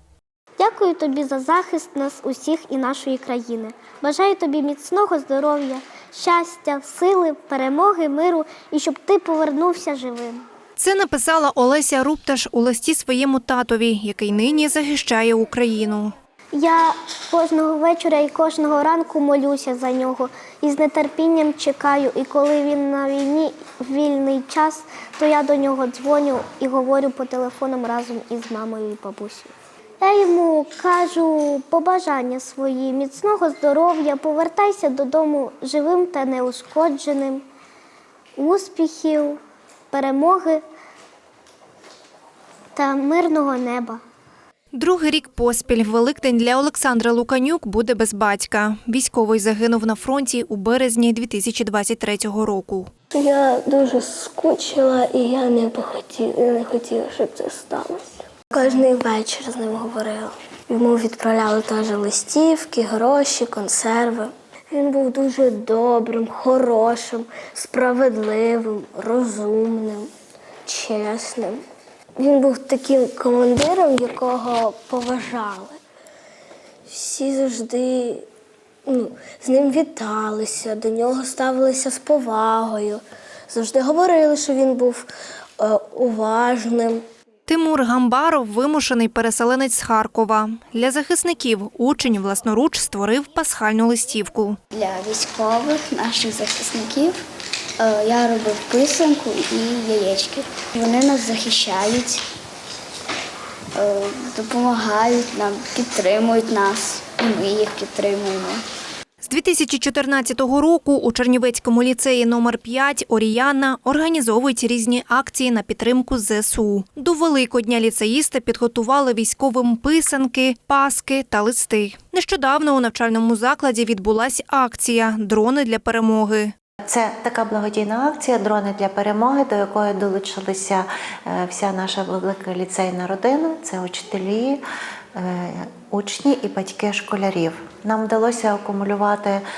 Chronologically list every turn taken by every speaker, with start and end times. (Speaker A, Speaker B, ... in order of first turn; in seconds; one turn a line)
Speaker A: 0.6-10.4
Speaker B: 10.8-16.1
Speaker A: 16.5-37.4
Speaker A: 38.4-39.4
Speaker A: 39.9-40.6
Speaker A: 42.7-44.0
Speaker B: 44.7-52.9
Speaker C: 53.1-70.1
Speaker C: 70.7-71.6
Speaker C: 72.2-75.8
Speaker C: 76.9-78.2
Speaker C: 78.9-87.0
Speaker B: 87.5-94.6
Speaker D: 94.7-97.2
Speaker D: 97.8-102.2
Speaker D: 103.7-108.6
Speaker B: 109.2-126.5
Speaker E: 126.9-134.6
Speaker E: 135.1-139.4